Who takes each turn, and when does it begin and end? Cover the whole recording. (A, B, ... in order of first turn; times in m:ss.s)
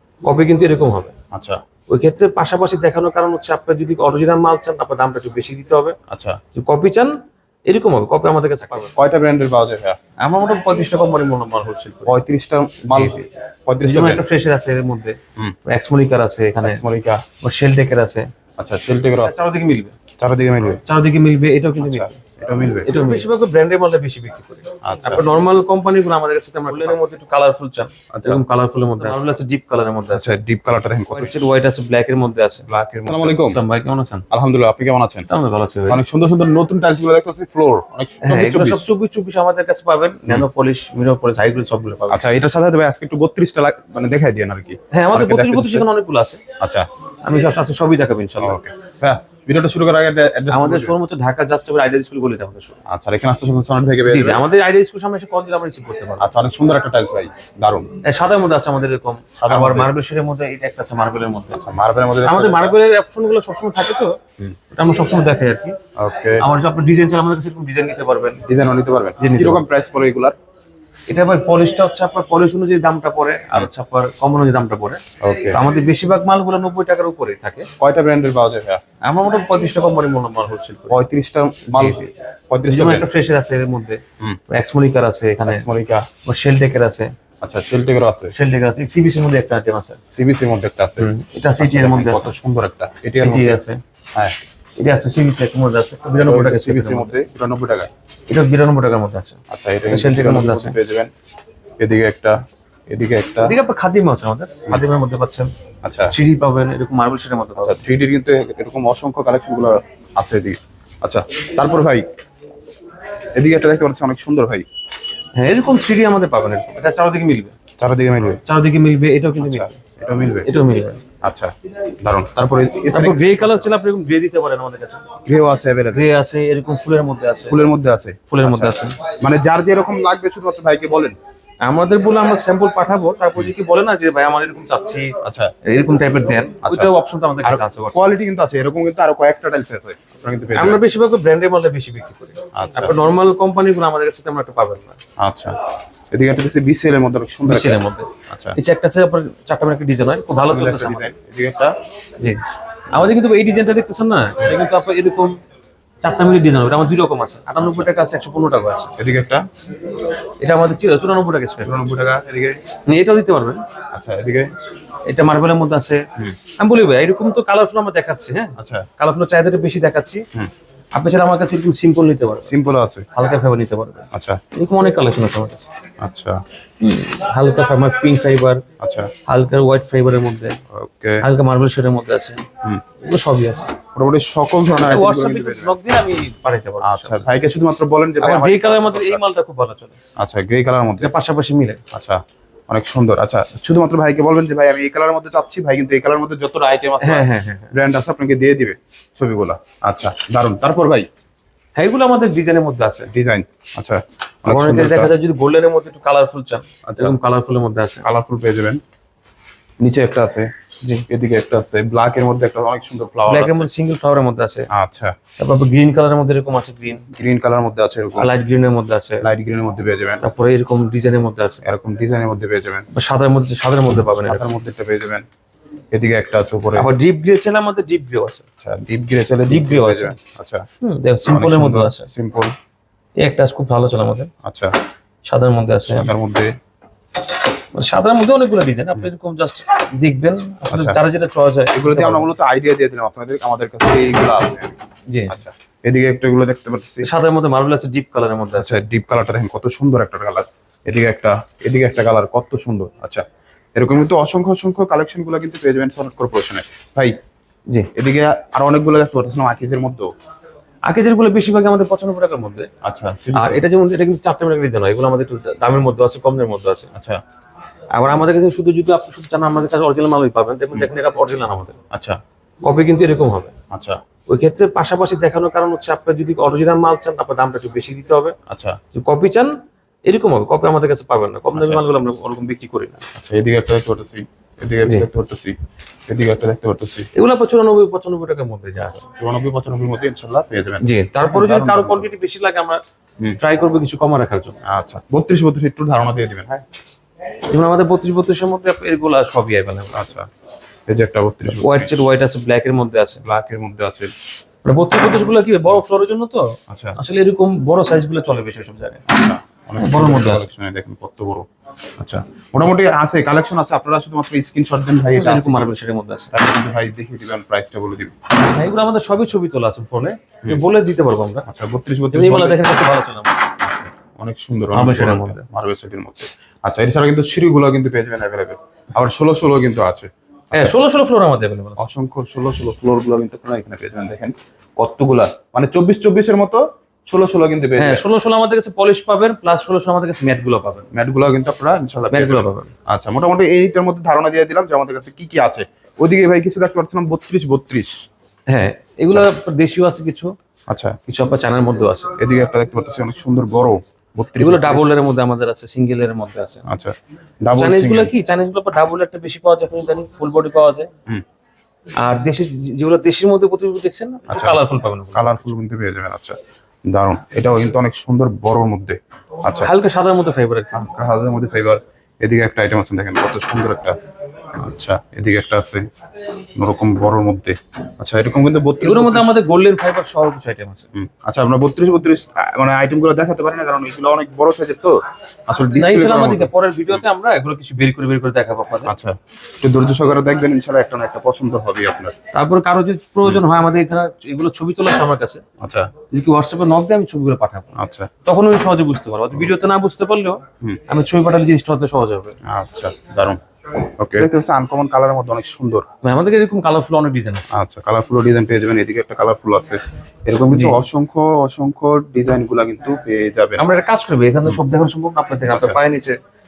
0:00.2-0:01.1 A
0:01.3-0:01.6 B
0:01.9-0:06.0 A
0:06.1-0:06.4 B
0:06.5-0:07.2 A
0:07.7-0:08.9 A
0:08.9-0:10.0 B
0:10.2-0:12.2 A
0:12.1-0:14.2 B
0:12.9-0:13.3 A
0:13.8-0:16.8 A
0:16.6-0:17.2 B
0:17.4-0:18.3 A
0:18.6-0:19.3 B
0:19.2-0:20.0 A
0:20.2-0:20.8 B
0:20.9-0:22.1 A
0:21.8-0:23.0 B
0:22.8-0:30.4 A
0:24.8-0:25.3 B
0:28.1-0:28.4 B
0:30.1-0:31.5 B
0:31.1-0:34.2 A
0:32.7-0:33.6 B
0:34.3-0:35.3 B
0:35.3-0:36.0 A
0:35.9-0:38.9 B
0:38.2-0:42.3 A
0:42.1-0:45.9 B
0:44.9-0:46.4 A
0:46.6-0:46.9 B
0:47.2-0:48.6 A
0:48.4-0:51.0 B
0:50.5-0:52.8 A
0:52.9-0:54.5 B
0:54.1-0:56.3 A
0:56.2-0:57.9 B
0:58.0-1:01.6 A
0:59.4-1:00.0 B
1:01.5-1:02.7 B
1:02.2-1:04.2 A
1:04.7-1:05.8 A
1:06.0-1:06.5 B
1:06.4-1:08.4 A
1:08.5-1:10.4 B
1:09.2-1:09.6 A
1:11.1-1:15.0 A
1:15.2-1:15.6 B
1:15.5-1:17.7 A
1:17.8-1:18.8 B
1:19.0-1:21.0 A
1:20.9-1:23.1 B
1:21.8-1:22.0 A
1:22.7-1:25.6 A
1:25.5-1:26.1 B
1:26.2-1:27.1 A
1:27.4-1:28.4 B
1:28.3-1:30.0 A
1:30.1-1:33.5 B
1:31.0-1:32.3 A
1:33.2-1:33.8 A
1:34.8-1:37.2 A
1:36.2-1:37.9 B
1:38.3-1:40.8 A
1:39.5-1:41.1 B
1:41.8-1:42.4 B
1:42.9-1:43.6 B
1:43.4-1:45.5 A
1:45.8-1:46.1 B
1:46.1-1:47.8 A
1:47.6-1:52.1 B
1:53.4-1:54.7 B
1:55.4-1:57.6 A
1:57.8-1:58.4 B
1:58.5-1:59.8 A
1:59.4-2:00.5 B
2:00.4-2:01.0 A
2:01.2-2:03.7 B
2:02.9-2:05.0 A
2:05.2-2:06.1 B
2:05.9-2:07.6 A
2:07.5-2:11.2 B
2:08.3-2:09.0 A
2:11.6-2:18.1 A
2:15.2-2:15.5 B
2:16.6-2:16.9 B
2:17.4-2:20.8 B
2:20.5-2:25.0 A
2:22.6-2:23.0 B
2:25.2-2:25.6 B
2:26.1-2:28.6 B
2:27.5-2:31.1 A
2:30.5-2:31.8 B
2:32.2-2:35.4 A
2:36.0-2:38.9 A
2:37.6-2:37.9 B
2:39.0-2:39.5 B
2:40.4-2:41.7 A
2:41.6-2:42.6 B
2:42.9-2:43.6 A
2:43.9-2:44.5 B
2:45.0-2:50.2 A
2:48.6-2:48.9 B
2:50.9-2:52.5 A
2:52.4-2:53.1 B
2:53.1-2:55.7 A
2:54.1-2:54.4 B
2:56.0-2:56.4 B
2:56.8-2:58.6 A
2:58.8-2:59.1 B
2:59.3-3:00.6 A
3:00.7-3:01.2 B
3:01.2-3:02.4 A
3:03.0-3:03.7 A
3:04.0-3:05.8 B
3:04.8-3:07.2 A
3:06.8-3:09.2 B
3:08.2-3:10.0 A
3:10.2-3:11.1 B
3:11.0-3:11.8 A
3:11.9-3:21.1 B
3:17.0-3:17.7 A
3:21.8-3:23.1 A
3:23.1-3:25.1 B
3:24.5-3:28.0 A
3:26.8-3:27.2 B
3:28.0-3:28.8 B
3:29.8-3:30.5 B
3:31.1-3:33.7 B
3:33.3-3:34.7 A
3:34.7-3:35.2 B
3:35.4-3:37.0 A
3:37.1-3:38.3 B
3:38.2-3:39.2 A
3:39.2-3:40.2 B
3:40.2-3:41.6 A
3:41.6-3:42.9 B
3:42.9-3:44.5 A
3:44.1-3:45.2 B
3:45.9-3:46.9 B
3:46.8-3:48.4 A
3:48.6-3:50.6 B
3:49.5-3:50.2 A
3:50.8-3:52.1 A
3:51.3-3:52.6 B
3:53.2-3:54.3 A
3:54.4-3:54.8 B
3:55.3-3:56.1 A
3:55.9-3:56.5 B
3:57.7-4:02.3 A
4:00.7-4:01.0 B
4:01.7-4:04.8 B
4:05.3-4:07.1 B
4:07.0-4:08.8 A
4:08.6-4:13.2 B
4:13.8-4:17.2 B
4:18.0-4:20.1 B
4:20.9-4:22.7 A
4:22.8-4:23.6 B
4:23.3-4:26.9 A
4:26.9-4:27.2 B
4:27.9-4:31.8 A
4:31.9-4:32.2 B
4:32.6-4:33.5 A
4:33.7-4:34.0 B
4:34.3-4:38.4 A
4:38.5-4:38.8 B
4:38.9-4:39.6 A
4:40.1-4:43.0 A
4:41.5-4:41.8 B
4:43.2-4:45.6 B
4:46.1-4:47.1 B
4:47.1-4:49.1 A
4:49.0-4:52.1 B
4:50.8-4:52.8 A
4:53.4-4:54.6 A
4:54.6-4:56.6 B
4:57.5-5:00.0 A
4:59.9-5:00.3 B
5:00.9-5:02.0 B
5:01.5-5:03.2 A
5:03.2-5:04.1 B
5:04.6-5:09.0 A
5:06.7-5:07.0 B
5:09.1-5:11.5 B
5:09.8-5:10.5 A
5:12.0-5:15.7 B
5:15.2-5:16.3 A
5:16.3-5:18.1 B
5:18.4-5:21.5 A
5:21.5-5:22.8 B
5:22.1-5:23.4 A
5:23.6-5:30.8 B
5:24.7-5:25.4 A
5:30.5-5:31.9 A
5:31.8-5:38.0 B
5:37.8-5:40.9 A
5:40.9-5:48.1 B
5:42.1-5:42.7 A
5:48.5-5:50.3 A
5:50.7-5:51.0 B
5:51.1-5:52.1 A
5:52.2-5:54.9 B
5:54.4-5:56.6 A
5:56.7-5:58.1 B
5:57.6-6:00.9 A
6:02.0-6:05.5 A
6:04.3-6:04.6 B
6:05.1-6:06.4 B
6:06.9-6:09.7 B
6:09.6-6:10.8 A
6:10.7-6:14.0 B
6:14.5-6:15.9 B
6:16.6-6:19.4 B
6:18.8-6:20.9 A
6:21.0-6:25.0 B
6:25.5-6:27.0 B
6:25.8-6:28.9 A
6:28.9-6:32.2 B
6:32.3-6:35.4 A
6:35.6-6:35.9 B
6:36.1-6:37.7 A
6:37.8-6:38.1 B
6:38.2-6:42.4 A
6:42.4-6:45.9 B
6:46.0-6:47.5 A
6:47.5-6:53.6 B
6:50.5-6:50.8 A
6:53.6-6:56.2 A
6:55.5-6:55.8 B